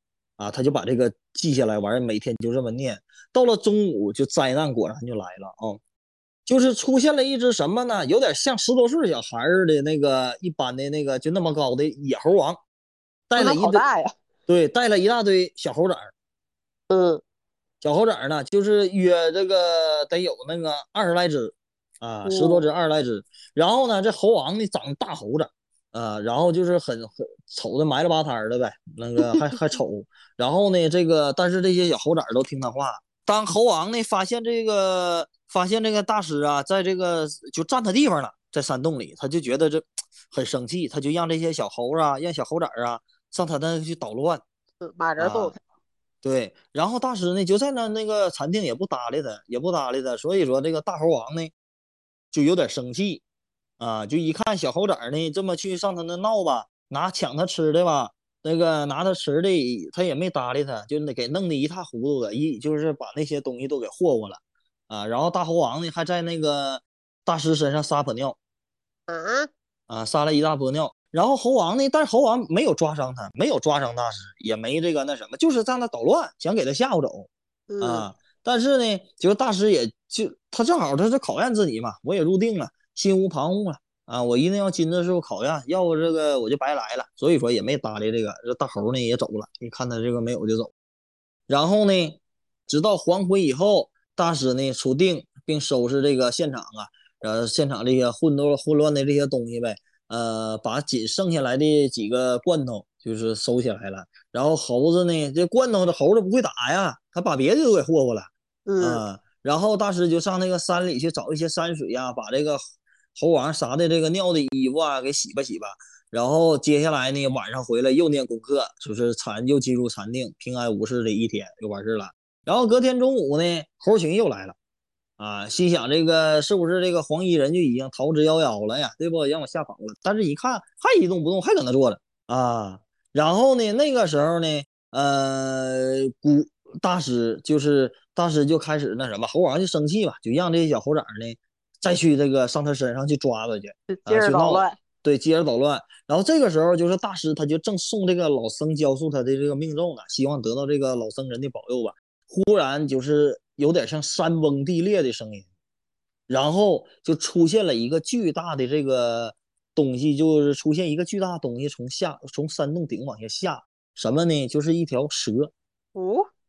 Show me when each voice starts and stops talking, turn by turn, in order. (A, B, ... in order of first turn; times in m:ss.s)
0:00.4-0:05.8 A
0:06.5-0:12.6 A
0:13.3-0:13.8 A
0:13.3-0:14.1 B
0:14.5-0:16.1 A
0:16.9-0:17.2 B
0:17.8-0:44.4 A
0:22.2-0:22.6 B
0:44.8-0:45.5 B
0:45.2-0:45.5 A
0:46.2-0:51.5 A
0:52.3-0:53.2 A
0:53.8-1:08.4 A
1:09.1-1:09.5 B
1:09.9-1:17.3 A
1:17.7-1:18.0 B
1:17.8-1:30.7 A
1:31.5-1:52.6 A
1:48.6-1:49.0 B
1:53.2-2:04.5 A
2:05.2-2:35.4 A
2:23.9-2:24.8 B
2:36.3-2:45.5 A
2:45.9-2:46.3 B